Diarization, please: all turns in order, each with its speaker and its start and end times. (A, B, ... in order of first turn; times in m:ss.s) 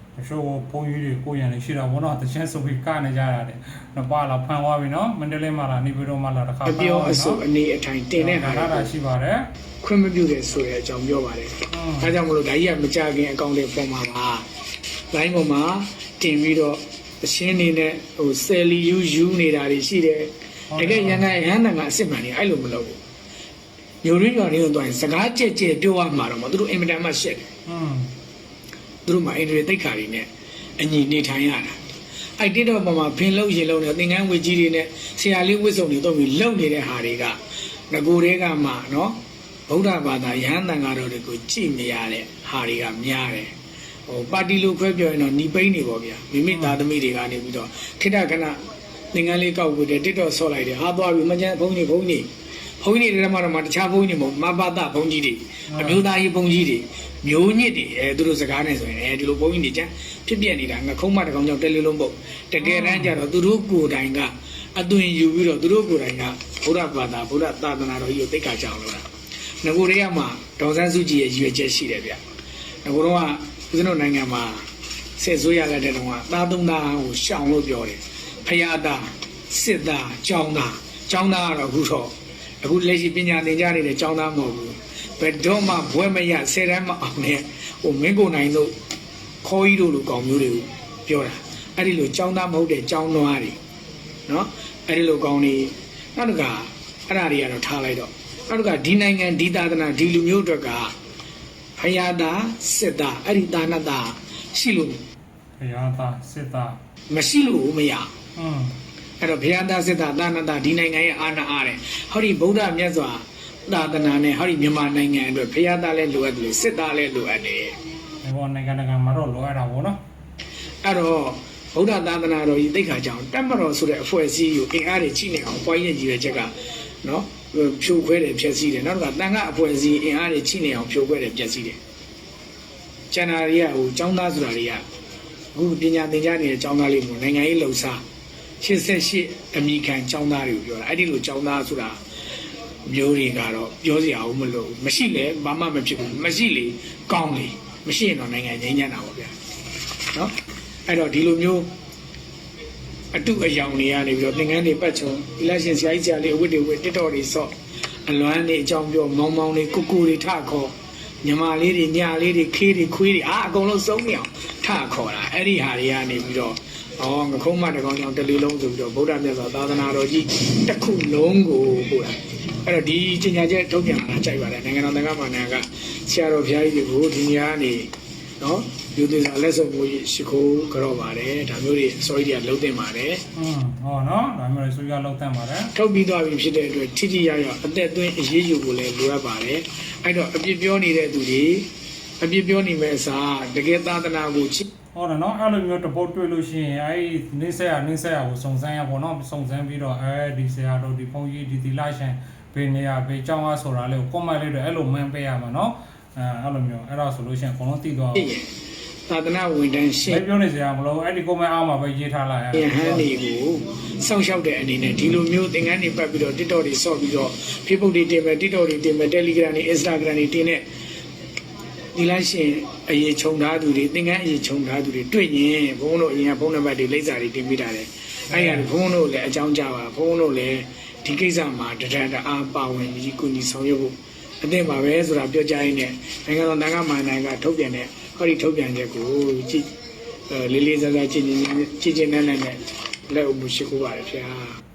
0:00.2-0:07.4 A
0:06.6-0:08.9 B
0:08.2-0:09.4 A
0:09.8-0:14.4 B
0:11.7-0:12.1 A
0:15.1-0:23.0 B
0:20.7-0:21.3 A
0:24.0-0:27.5 B
0:27.7-0:28.1 A
0:29.1-0:30.2 B
0:30.8-0:31.8 B
0:32.4-0:37.4 B
0:37.9-0:39.2 B
0:39.7-0:43.5 B
0:44.1-0:48.6 B
0:46.5-0:46.8 A
0:49.1-0:52.3 B
0:52.8-1:09.0 B
0:55.7-0:56.0 A
1:02.6-1:03.2 A
1:09.6-1:12.2 B
1:12.8-1:14.6 B
1:15.2-1:28.7 B
1:29.4-1:33.6 B
1:34.3-1:40.9 B
1:41.8-1:45.0 B
1:45.6-1:46.8 A
1:47.1-1:48.1 B
1:48.4-1:48.8 A
1:49.2-1:57.8 B
1:58.2-2:00.0 A
2:00.8-2:06.5 B
2:07.0-2:11.8 B
2:13.1-2:14.8 B
2:15.5-2:18.0 B
2:18.6-2:22.0 B
2:22.9-2:29.3 B
2:30.9-2:31.7 B
2:33.1-2:37.5 B
2:38.1-2:57.9 B
2:58.4-3:03.2 B
3:03.4-3:05.7 A
3:05.7-3:11.7 B
3:12.2-3:14.6 B
3:14.9-3:28.3 A
3:28.2-3:28.5 B
3:29.1-3:30.2 B
3:30.1-3:33.0 A
3:32.5-3:40.6 B
3:41.9-3:59.7 B
3:48.3-3:48.7 A
4:00.3-4:02.6 B
4:03.1-4:04.5 B